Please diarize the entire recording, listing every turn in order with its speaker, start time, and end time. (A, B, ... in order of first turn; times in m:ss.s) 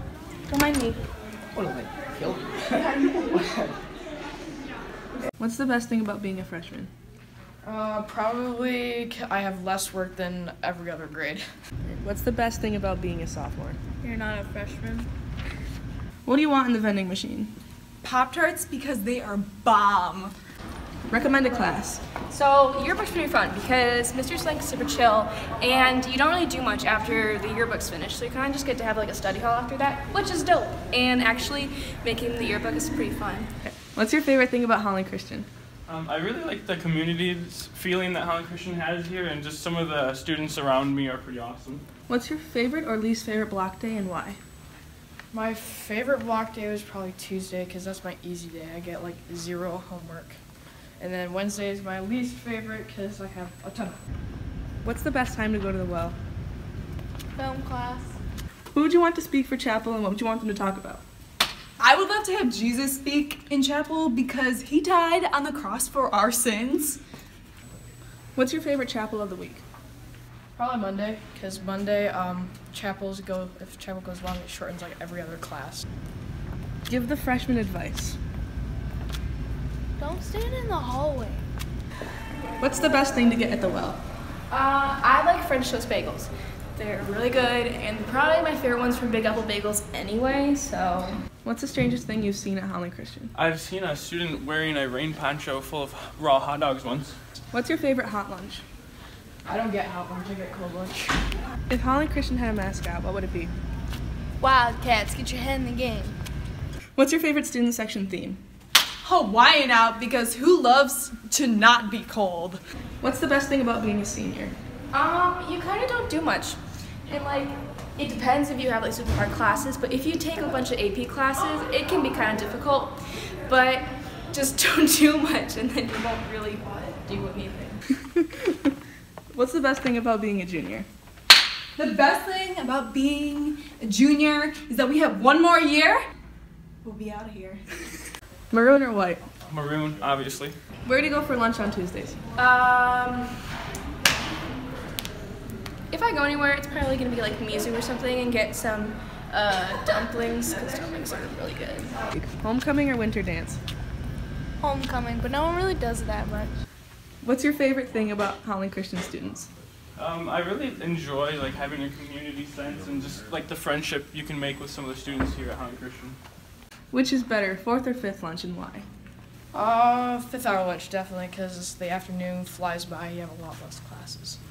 0:00.5-0:01.0 A
0:05.4-0:06.9 B
0:07.6-0:11.4 C
0:11.9-0:13.8 B
0:14.0-0:15.1 A
0:16.2-0:17.5 B
0:18.0-0:20.3 D
0:21.1-0:22.0 B
0:22.3-0:33.5 A
0:33.6-0:35.5 B
0:35.9-0:41.8 E
0:42.1-0:44.4 B
0:45.3-0:50.4 C
0:51.0-0:54.0 C
0:54.8-0:56.2 B
0:57.4-0:58.2 F
0:58.7-1:01.0 B
1:01.8-1:07.0 D
1:08.4-1:09.6 B
1:10.6-1:15.8 C
1:16.9-1:18.2 B
1:20.0-1:21.4 F
1:22.6-1:24.0 B
1:24.5-1:31.2 A
1:31.4-1:33.3 B
1:33.4-1:37.2 E
1:37.5-1:38.6 B
1:39.5-1:41.2 C
1:41.7-1:43.5 B
1:44.4-1:46.2 F
1:47.0-1:48.4 B
1:49.0-1:52.6 D
1:53.0-1:54.6 B
1:54.9-2:07.8 A
2:08.2-2:08.5 B
2:09.3-2:10.9 B
2:11.8-2:16.0 D
2:16.8-2:18.1 D
2:18.5-2:19.3 B
2:19.5-2:20.6 E
2:20.8-2:22.2 B
2:22.4-2:23.5 A
2:25.9-2:31.9 A
2:32.2-2:33.6 B
2:34.6-2:36.5 F
2:37.2-2:39.5 B
2:40.0-2:46.2 E
2:46.9-2:48.9 B
2:49.5-2:54.4 C